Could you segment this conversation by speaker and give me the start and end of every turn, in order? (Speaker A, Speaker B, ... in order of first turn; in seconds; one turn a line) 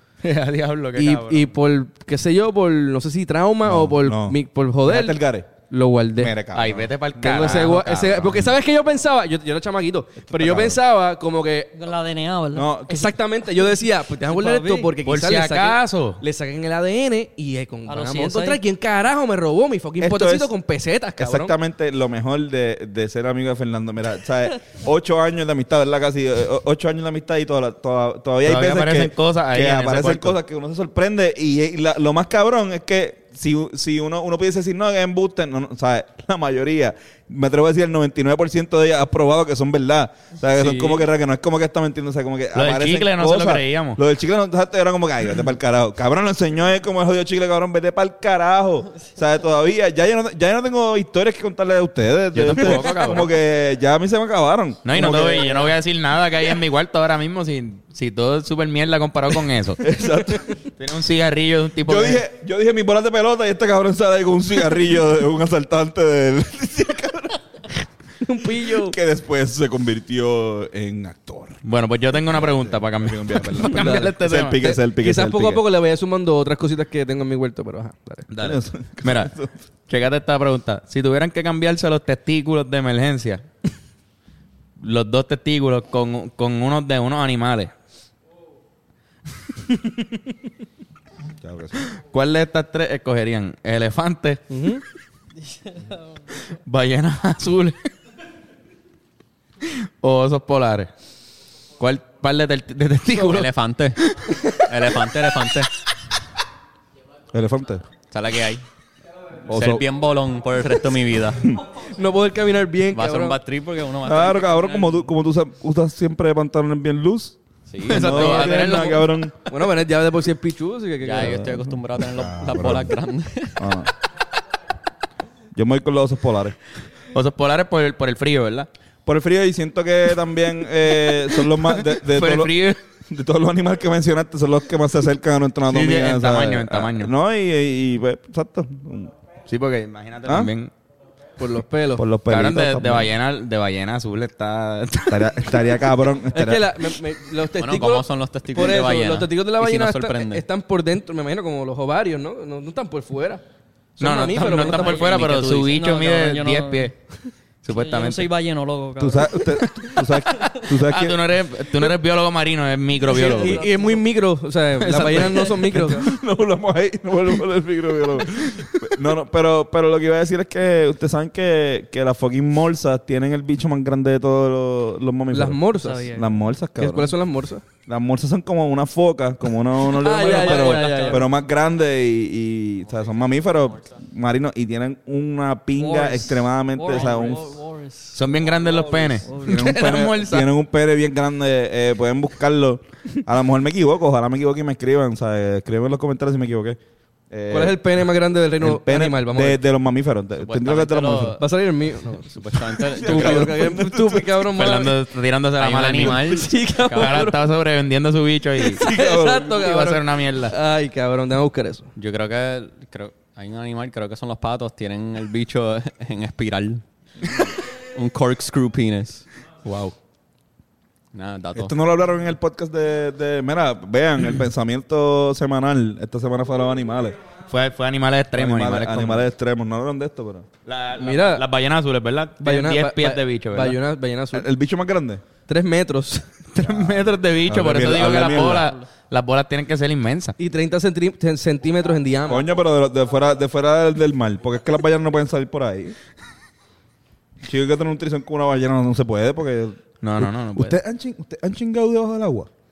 Speaker A: 0.2-1.6
Speaker B: 1.0-6.4
Speaker C: 3.6-5.5
Speaker C: 6.2-6.9
Speaker A: 6.5-8.6
Speaker B: 7.2-11.7
Speaker C: 10.3-10.8
Speaker D: 11.8-12.7
Speaker C: 12.6-13.1
Speaker B: 12.9-21.5
Speaker D: 14.2-15.0
Speaker A: 15.0-16.2
Speaker D: 17.9-18.6
Speaker C: 20.0-20.5
Speaker C: 21.2-55.8
Speaker A: 28.4-30.4
Speaker B: 40.6-41.0
Speaker A: 42.5-44.0
Speaker A: 52.3-53.3
Speaker A: 54.9-59.9
Speaker C: 59.8-60.6
Speaker A: 60.8-62.2
Speaker C: 61.8-67.8
Speaker B: 68.2-69.0
Speaker C: 68.6-71.6
Speaker A: 71.6-74.6
Speaker C: 72.1-75.6
Speaker B: 73.7-78.3
Speaker A: 78.3-79.3
Speaker C: 78.4-79.6
Speaker A: 79.9-83.5
Speaker A: 84.8-87.7
Speaker C: 91.4-91.8
Speaker A: 92.0-94.5
Speaker B: 94.5-94.8
Speaker D: 95.7-95.9
Speaker A: 96.5-97.8
Speaker A: 99.6-100.9
Speaker A: 101.8-104.6
Speaker E: 103.2-104.0
Speaker E: 104.6-105.7
Speaker C: 107.3-107.9
Speaker E: 108.1-108.6
Speaker C: 109.5-109.8
Speaker E: 109.5-111.5
Speaker C: 111.3-111.6
Speaker B: 111.8-113.4
Speaker E: 112.9-114.9
Speaker C: 114.0-119.4
Speaker E: 117.7-118.8
Speaker A: 117.9-119.6
Speaker B: 119.5-121.5
Speaker E: 121.0-123.9
Speaker C: 121.2-123.0
Speaker C: 123.6-123.9
Speaker C: 125.5-126.6
Speaker A: 127.1-128.7
Speaker C: 129.1-139.1
Speaker A: 131.1-132.8
Speaker A: 135.7-137.1
Speaker A: 139.5-140.7
Speaker C: 140.3-140.5
Speaker B: 141.4-142.1
Speaker C: 142.0-143.1
Speaker A: 142.3-145.9
Speaker C: 145.1-146.7
Speaker B: 146.3-153.4
Speaker E: 147.6-150.4
Speaker B: 154.0-155.3
Speaker A: 154.0-156.9
Speaker E: 154.6-155.8
Speaker D: 155.7-156.9
Speaker A: 157.6-158.3
Speaker D: 157.7-159.6
Speaker C: 159.0-161.2
Speaker A: 160.0-163.7
Speaker B: 163.1-166.1
Speaker D: 163.2-164.0
Speaker A: 164.8-165.9
Speaker C: 165.7-177.2
Speaker B: 175.3-176.1
Speaker D: 175.8-176.3
Speaker B: 176.8-177.6
Speaker C: 177.8-187.5
Speaker B: 179.9-181.3
Speaker E: 180.3-181.2
Speaker E: 183.5-183.8
Speaker D: 185.8-188.2
Speaker A: 188.2-190.5
Speaker D: 189.2-189.7
Speaker C: 189.3-196.8
Speaker C: 197.3-197.8
Speaker B: 197.5-199.6
Speaker C: 198.6-201.4
Speaker E: 200.4-201.4
Speaker B: 201.4-205.0
Speaker E: 202.1-203.7
Speaker C: 202.9-204.4
Speaker A: 204.5-208.8
Speaker E: 205.6-207.3
Speaker B: 206.1-207.4
Speaker B: 208.6-211.9
Speaker C: 208.8-209.7
Speaker A: 209.5-210.6
Speaker E: 212.0-219.3
Speaker A: 219.7-219.9
Speaker E: 221.1-221.7
Speaker C: 221.5-227.2
Speaker A: 227.5-229.3
Speaker C: 228.3-230.5
Speaker A: 230.7-233.8
Speaker B: 231.0-231.4
Speaker B: 232.4-234.5
Speaker C: 234.3-235.3
Speaker B: 235.4-236.3
Speaker A: 236.5-240.4
Speaker C: 236.6-238.7
Speaker B: 240.4-242.4
Speaker C: 242.3-246.0
Speaker C: 247.4-252.5
Speaker A: 250.0-250.8